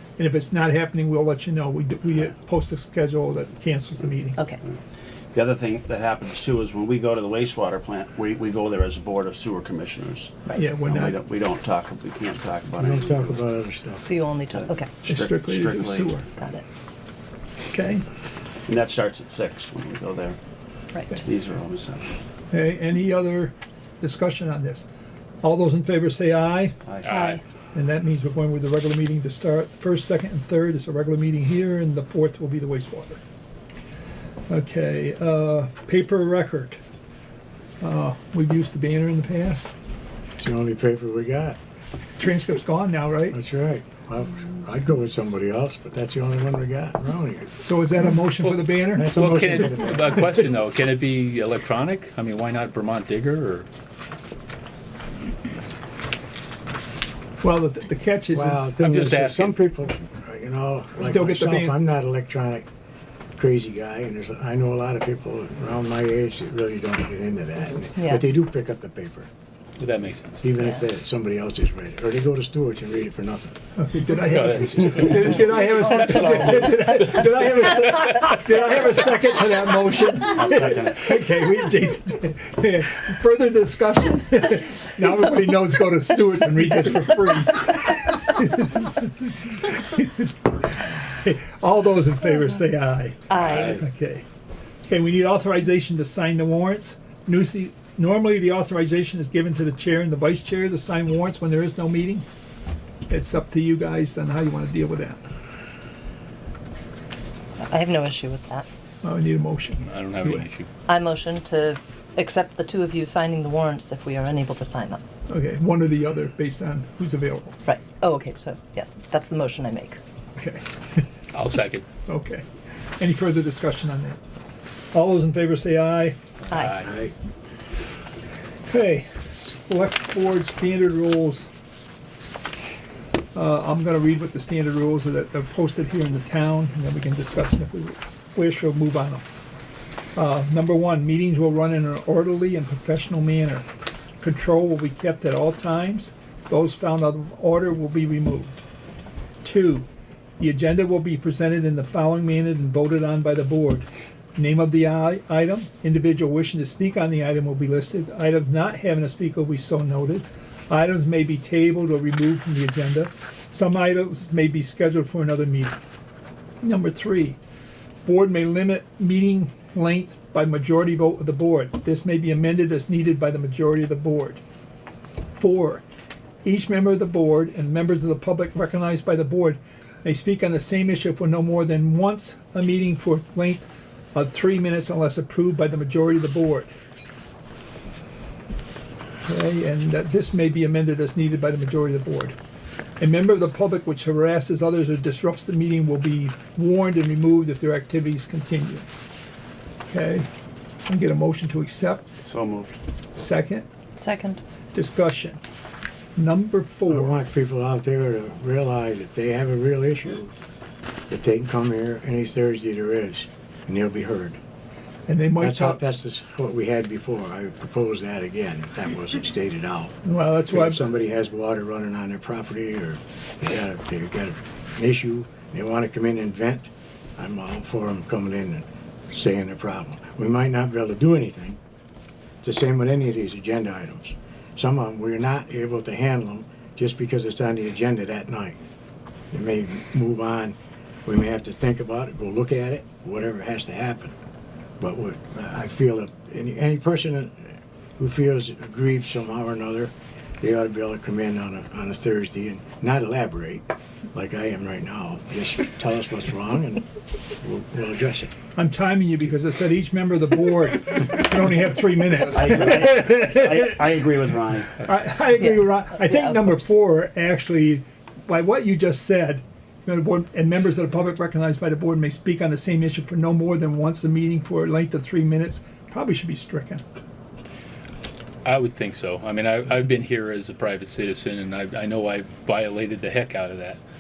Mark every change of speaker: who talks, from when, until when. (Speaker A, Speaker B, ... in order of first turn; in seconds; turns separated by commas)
Speaker A: 0.2-4.4, Speaker B: 5.3-13.3, Speaker A: 10.6-11.1, Speaker C: 12.8-14.0, Speaker D: 14.0-14.9, Speaker B: 14.5-16.2, Speaker A: 15.0-16.2, Speaker D: 16.4-16.6, Speaker A: 17.7-18.0, Speaker B: 18.6-20.4, Speaker D: 20.9-21.2, Speaker B: 21.1-22.1, Speaker A: 22.5-24.9, Speaker A: 25.4-26.8, Speaker E: 27.0-27.4, Speaker D: 27.1-27.4, Speaker A: 27.7-33.2, Speaker A: 34.5-36.8, Speaker A: 37.8-39.7, Speaker C: 40.4-41.6, Speaker A: 42.2-43.4, Speaker C: 43.3-47.5, Speaker A: 47.6-50.2, Speaker E: 48.4-53.7, Speaker C: 49.0-50.3, Speaker A: 57.4-58.8, Speaker C: 58.3-62.7, Speaker E: 58.8-59.5, Speaker A: 61.0-61.8, Speaker C: 63.4-69.3, Speaker D: 68.0-68.2, Speaker E: 69.8-70.4, Speaker C: 70.4-73.5, Speaker A: 73.8-94.2, Speaker E: 74.3-75.7, Speaker B: 80.3-81.2, Speaker D: 93.3-93.8, Speaker A: 94.9-102.2, Speaker A: 103.1-105.3, Speaker D: 107.6-108.7, Speaker A: 109.0-110.4, Speaker E: 109.8-110.7, Speaker D: 110.9-115.0, Speaker A: 115.3-117.5, Speaker D: 117.6-120.0, Speaker A: 120.4-121.0, Speaker E: 121.3-121.8, Speaker A: 122.0-122.4, Speaker A: 123.0-124.2, Speaker A: 124.9-126.2, Speaker D: 126.5-126.8, Speaker E: 126.5-126.9, Speaker C: 126.8-127.1, Speaker A: 128.7-131.5, Speaker A: 133.3-139.2, Speaker A: 140.2-143.7, Speaker A: 144.2-148.6, Speaker A: 149.4-149.8, Speaker A: 150.4-165.8, Speaker A: 166.6-167.4, Speaker A: 168.0-174.4, Speaker A: 175.4-175.8, Speaker A: 176.4-186.7, Speaker A: 189.2-192.4, Speaker A: 193.0-198.9, Speaker A: 199.9-200.3, Speaker A: 200.8-202.1, Speaker B: 202.2-202.8, Speaker A: 203.2-203.7, Speaker D: 203.9-204.4, Speaker A: 204.7-205.4, Speaker A: 206.2-207.1, Speaker C: 206.9-210.3, Speaker C: 211.1-214.4, Speaker A: 215.1-215.8, Speaker C: 215.4-219.9, Speaker A: 220.0-220.8, Speaker C: 220.5-231.6, Speaker C: 232.4-238.6, Speaker C: 239.3-244.2, Speaker C: 244.8-256.9, Speaker C: 257.4-258.3, Speaker A: 258.6-263.6, Speaker B: 262.3-264.8, Speaker A: 264.8-276.8, Speaker D: 265.4-266.7, Speaker E: 278.4-283.8